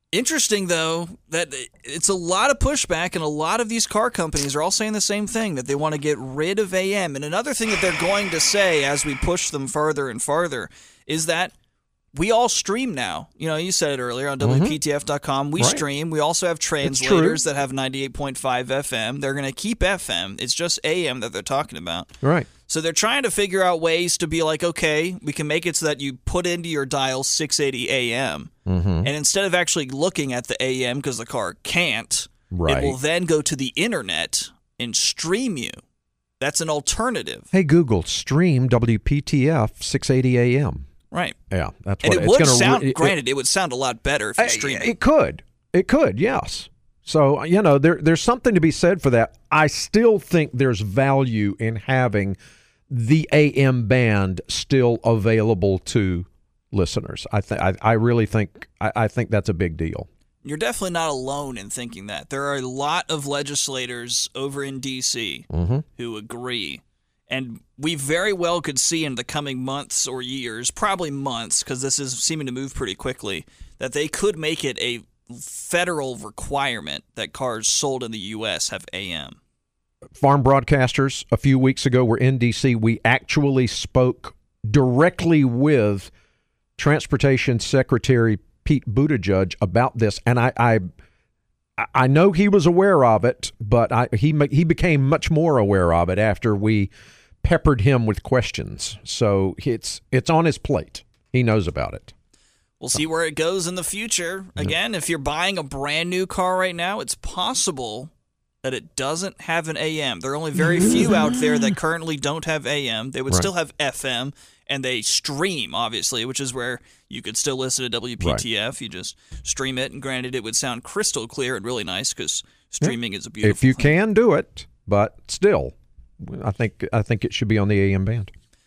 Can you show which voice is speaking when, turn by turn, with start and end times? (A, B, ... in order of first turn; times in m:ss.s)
0:00.1-0:11.5 A
0:12.1-0:22.1 A
0:14.4-0:14.8 B
0:15.6-0:15.8 B
0:16.8-0:17.4 B
0:22.2-0:22.5 B
0:22.7-0:28.5 A
0:28.7-0:29.1 B
0:29.0-0:35.8 A
0:32.5-0:33.0 B
0:36.4-0:37.5 A
0:37.5-0:40.8 B
0:41.1-0:41.4 A
0:41.5-0:43.2 B
0:42.0-0:44.9 A
0:44.4-0:52.4 B
0:52.9-1:00.1 B
1:00.4-1:19.4 A
1:05.5-1:05.8 B
1:20.2-1:26.1 B
1:26.8-1:30.8 B
1:31.8-1:36.9 B
1:37.4-1:42.1 B
1:42.8-1:48.1 A
1:48.6-2:03.9 A
1:58.2-1:58.4 B
2:02.8-2:08.3 B